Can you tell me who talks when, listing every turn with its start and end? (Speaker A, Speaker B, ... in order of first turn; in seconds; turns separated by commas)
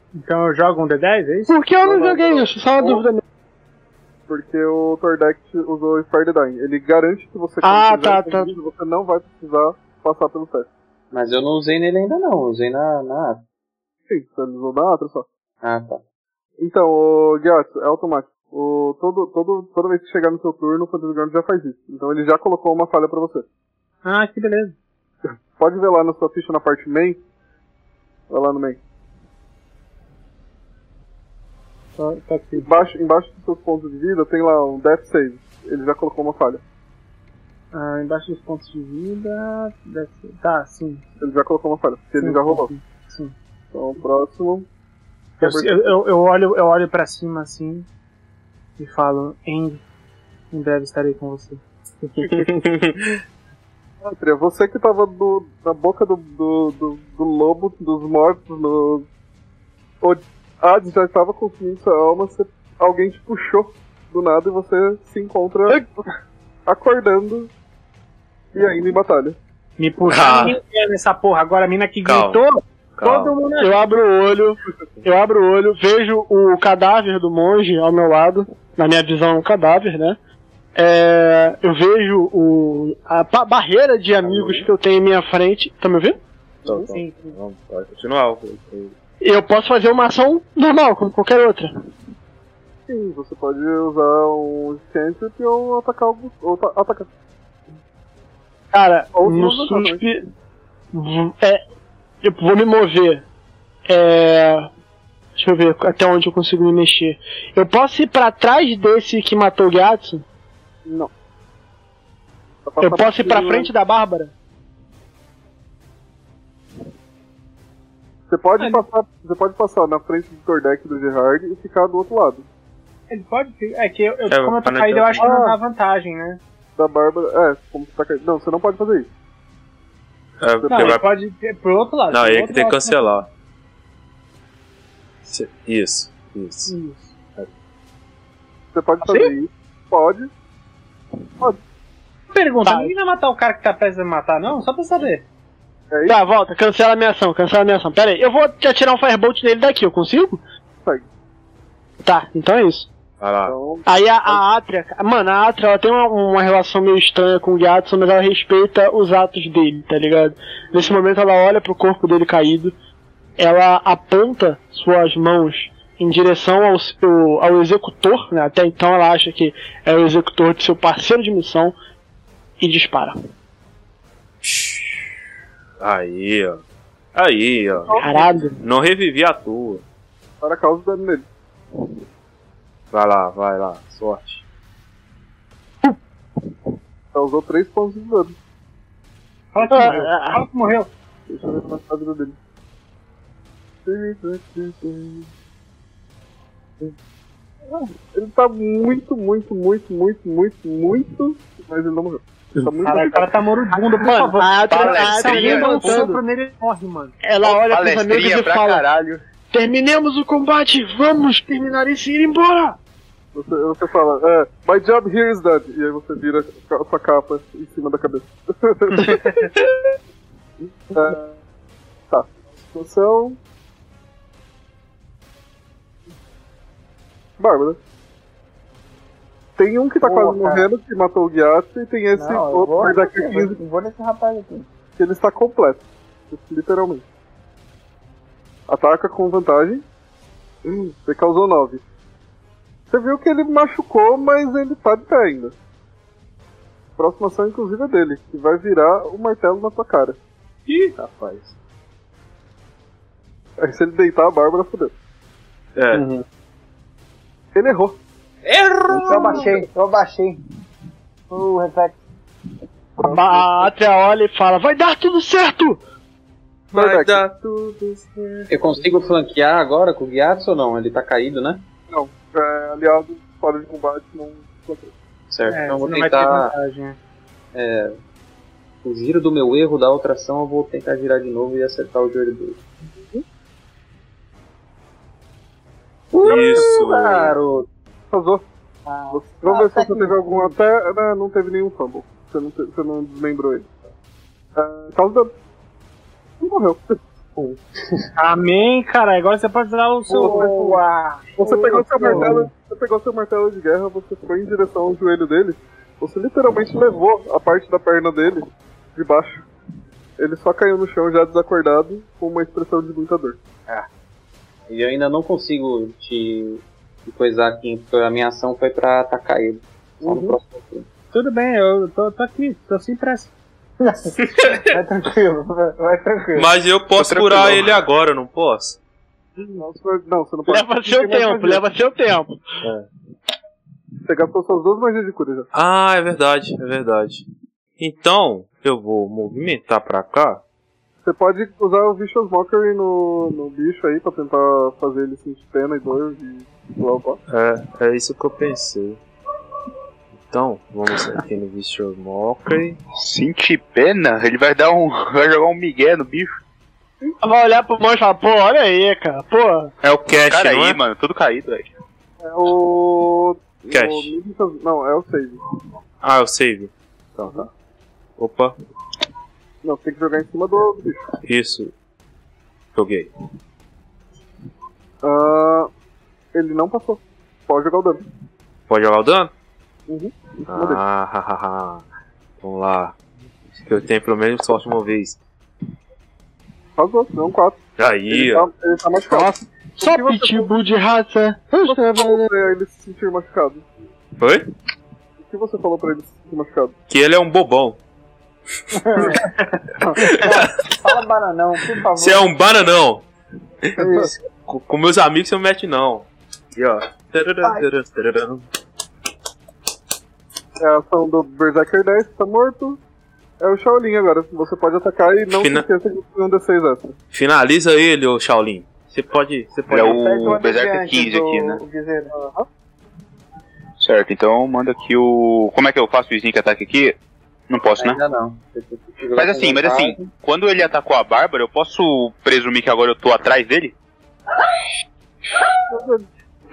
Speaker A: 0.2-1.6, Speaker B: 1.5-3.2, Speaker C: 1.8-3.0, Speaker C: 4.3-10.7, Speaker B: 7.6-8.5, Speaker D: 11.1-13.4, Speaker C: 14.1-15.3, Speaker D: 15.6-16.0, Speaker C: 16.6-23.4, Speaker A: 24.0-24.8, Speaker C: 25.6-27.2, Speaker C: 28.3-28.8, Speaker A: 32.0-32.7, Speaker C: 32.6-36.6, Speaker A: 37.7-41.0, Speaker C: 41.2-42.7, Speaker A: 42.2-43.3, Speaker C: 43.7-44.7, Speaker A: 45.4-47.9, Speaker C: 45.4-46.0, Speaker A: 48.8-49.8, Speaker A: 50.5-51.6, Speaker E: 52.0-53.2, Speaker C: 52.2-52.5, Speaker C: 54.0-59.1, Speaker C: 60.0-65.8, Speaker C: 66.7-67.5, Speaker C: 68.5-69.4, Speaker A: 69.8-73.8, Speaker E: 70.1-70.6, Speaker E: 72.0-72.4, Speaker E: 73.0-73.4, Speaker B: 73.6-80.2, Speaker B: 80.8-86.2, Speaker E: 84.2-84.7, Speaker C: 86.7-86.9, Speaker E: 86.7-89.0, Speaker A: 86.8-87.3, Speaker B: 89.2-91.7, Speaker C: 92.9-97.1, Speaker B: 98.7-100.3, Speaker C: 99.2-100.0, Speaker B: 100.9-101.6, Speaker B: 102.2-103.2, Speaker B: 103.9-104.7, Speaker B: 105.4-110.2, Speaker C: 110.9-111.1, Speaker C: 112.7-113.7, Speaker B: 112.8-114.3, Speaker C: 118.3-122.5, Speaker A: 123.1-126.4, Speaker E: 124.3-125.3, Speaker C: 125.2-125.6, Speaker C: 126.8-129.1, Speaker E: 130.4-131.1, Speaker C: 130.6-131.0, Speaker A: 130.7-133.2, Speaker E: 132.1-133.3, Speaker E: 135.2-136.8, Speaker A: 136.7-137.2, Speaker C: 138.7-140.3, Speaker A: 142.3-145.2, Speaker B: 142.6-142.9, Speaker C: 145.9-146.2, Speaker B: 146.1-150.4, Speaker B: 152.0-152.9, Speaker E: 153.2-153.6, Speaker C: 153.4-154.4, Speaker B: 153.9-162.7, Speaker B: 163.4-171.7, Speaker B: 172.6-173.2, Speaker E: 174.4-175.2, Speaker E: 175.8-176.6, Speaker E: 177.1-178.0, Speaker B: 178.0-178.6, Speaker E: 178.6-179.8, Speaker C: 180.4-181.3, Speaker E: 182.9-184.4, Speaker C: 187.1-188.3, Speaker A: 189.5-190.9, Speaker B: 189.6-190.4, Speaker C: 191.3-192.4, Speaker C: 193.8-195.3, Speaker C: 197.7-203.3, Speaker A: 202.8-207.2, Speaker B: 203.8-206.2, Speaker F: 204.7-206.1, Speaker B: 207.2-208.9, Speaker F: 207.4-209.2, Speaker B: 209.5-212.8, Speaker C: 213.3-219.4, Speaker C: 220.9-221.4, Speaker C: 222.1-223.4, Speaker C: 227.4-227.8, Speaker C: 229.6-233.6, Speaker G: 230.0-230.7, Speaker G: 232.2-234.7, Speaker C: 235.0-237.1, Speaker C: 238.7-239.8, Speaker C: 240.7-241.8, Speaker C: 242.9-245.6, Speaker C: 247.0-250.2, Speaker E: 250.7-251.6, Speaker C: 253.6-254.9, Speaker E: 255.8-256.1, Speaker C: 257.6-258.0, Speaker E: 258.4-259.6, Speaker G: 258.9-260.4, Speaker G: 261.3-262.0, Speaker C: 263.0-263.7, Speaker B: 263.0-265.8, Speaker E: 266.7-268.9, Speaker C: 266.7-267.2, Speaker D: 268.5-271.6, Speaker C: 271.9-274.9, Speaker D: 275.3-276.5, Speaker A: 275.5-277.0, Speaker D: 277.5-278.0, Speaker D: 278.8-282.6, Speaker D: 286.1-287.7, Speaker E: 286.2-287.4, Speaker C: 288.1-288.4, Speaker G: 288.9-290.5, Speaker C: 289.1-293.7, Speaker C: 294.6-295.3, Speaker C: 296.4-297.0, Speaker A: 298.2-300.9, Speaker C: 300.1-300.7, Speaker G: 300.1-300.8, Speaker G: 301.4-302.3, Speaker C: 301.4-308.4, Speaker A: 302.1-302.4, Speaker C: 309.0-309.4, Speaker C: 310.2-313.4, Speaker D: 314.7-320.9, Speaker C: 320.0-320.4, Speaker A: 321.1-323.3, Speaker G: 323.8-326.5, Speaker E: 326.3-328.8, Speaker F: 327.0-327.7, Speaker C: 329.6-331.6, Speaker B: 330.5-332.4, Speaker E: 332.6-332.9, Speaker C: 334.1-335.5, Speaker E: 335.5-337.2, Speaker E: 337.8-340.4, Speaker C: 341.0-347.2, Speaker E: 347.3-349.0, Speaker E: 350.2-352.8, Speaker F: 353.0-356.3, Speaker B: 357.2-359.7, Speaker E: 359.8-360.8, Speaker F: 360.2-361.7, Speaker C: 362.2-365.4, Speaker E: 363.7-364.1, Speaker E: 366.0-367.5, Speaker E: 368.2-368.5, Speaker C: 369.6-371.0, Speaker E: 371.2-371.7, Speaker E: 372.7-373.1, Speaker C: 375.0-375.7, Speaker C: 376.3-378.0, Speaker E: 378.7-379.3, Speaker C: 379.9-380.8, Speaker E: 380.5-381.9, Speaker E: 382.4-383.0, Speaker E: 383.6-385.2, Speaker C: 386.8-390.5, Speaker E: 387.8-388.5, Speaker B: 389.1-392.3, Speaker C: 391.6-393.6, Speaker E: 394.2-394.4, Speaker C: 395.2-396.7, Speaker E: 396.9-397.8, Speaker G: 398.8-399.2, Speaker G: 400.0-402.3, Speaker E: 400.1-400.5, Speaker E: 401.9-403.1, Speaker E: 403.6-408.5, Speaker C: 410.6-412.8, Speaker C: 413.4-416.9, Speaker E: 415.3-415.6, Speaker E: 417.1-420.1, Speaker F: 419.7-421.6, Speaker G: 419.8-422.1, Speaker C: 422.1-422.5, Speaker F: 423.8-427.0, Speaker F: 427.5-428.0, Speaker D: 427.8-430.1, Speaker F: 429.1-433.8, Speaker C: 435.7-436.1